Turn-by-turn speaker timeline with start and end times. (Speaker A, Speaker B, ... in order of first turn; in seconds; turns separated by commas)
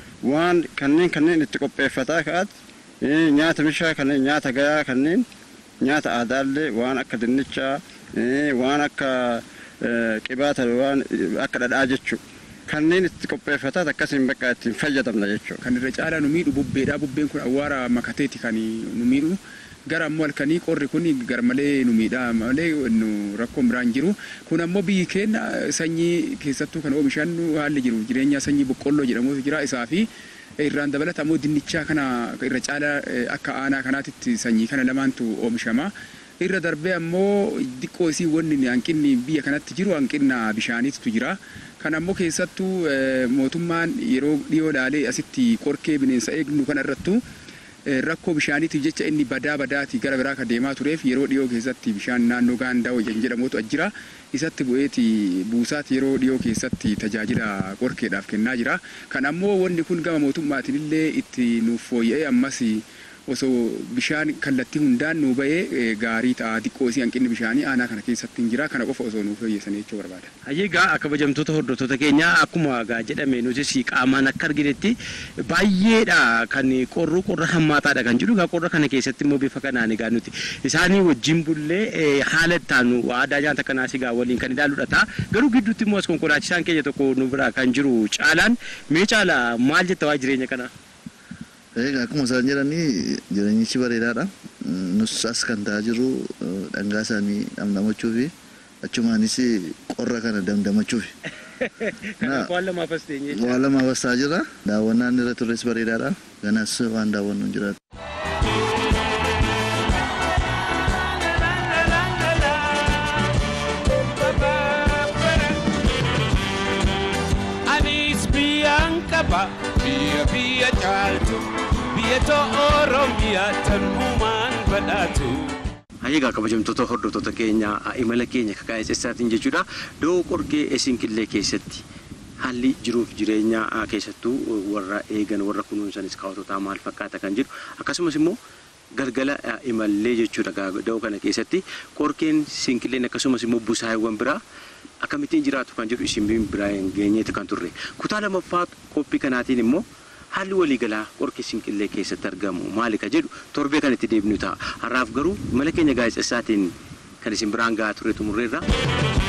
Speaker A: 0.2-5.2, Speaker A: 5.8-15.6, Speaker B: 15.6-30.1, Speaker B: 30.6-47.2, Speaker B: 47.9-70.3, Speaker C: 70.5-90.7, Speaker D: 91.8-98.3, Speaker D: 98.8-101.1, Speaker C: 101.6-103.6, Speaker D: 102.2-102.5, Speaker D: 103.3-107.8, Speaker E: 114.2-115.6, Speaker E: 117.7-125.5, Speaker C: 126.0-131.8, Speaker C: 132.4-138.4, Speaker C: 138.9-144.4, Speaker C: 145.0-158.6